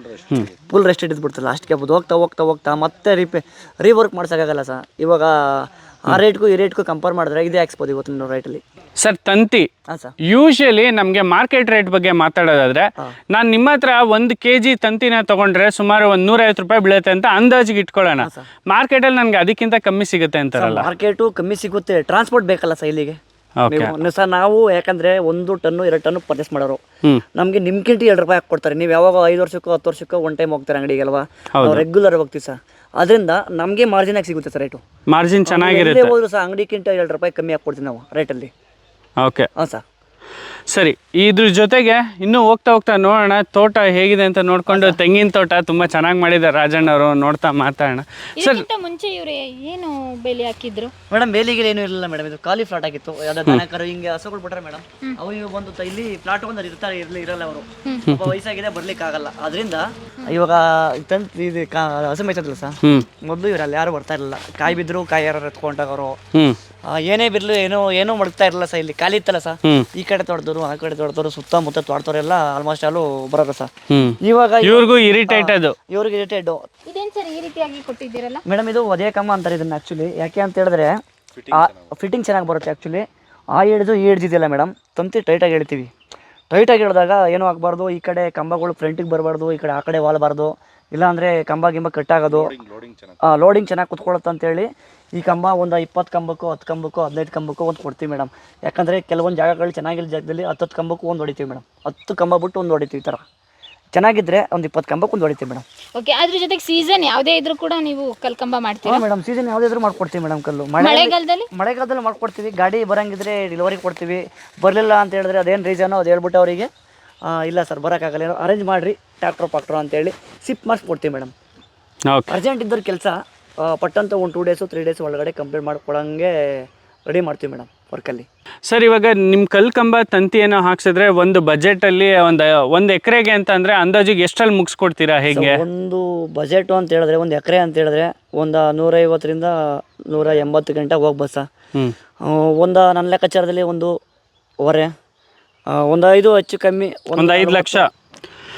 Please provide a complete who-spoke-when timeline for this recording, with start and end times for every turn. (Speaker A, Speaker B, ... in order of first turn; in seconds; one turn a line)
Speaker A: 0.6-8.6
Speaker B: 9.0-9.7
Speaker A: 9.9-10.1
Speaker B: 10.3-20.9
Speaker A: 18.2-18.5
Speaker A: 20.6-26.8
Speaker B: 23.6-23.9
Speaker A: 27.4-34.8
Speaker B: 31.6-31.8
Speaker B: 35.1-36.1
Speaker A: 35.5-38.5
Speaker B: 39.2-39.5
Speaker A: 39.6-39.8
Speaker B: 40.7-48.7
Speaker A: 44.7-45.0
Speaker C: 48.4-50.9
Speaker A: 51.1-66.2
Speaker A: 66.9-73.7
Speaker B: 73.9-75.8
Speaker A: 74.2-76.6
Speaker C: 76.9-78.4
Speaker A: 78.5-81.0
Speaker A: 81.5-83.0
Speaker A: 83.5-85.9
Speaker A: 86.5-92.5
Speaker A: 93.2-103.2
Speaker A: 103.9-105.7
Speaker C: 106.0-109.0
Speaker A: 108.8-116.7
Speaker C: 110.8-111.5
Speaker A: 117.3-121.3
Speaker A: 122.3-128.2
Speaker B: 128.7-135.6
Speaker A: 135.3-141.5
Speaker A: 142.2-143.9
Speaker A: 144.6-144.9
Speaker A: 145.7-147.9
Speaker B: 147.2-147.9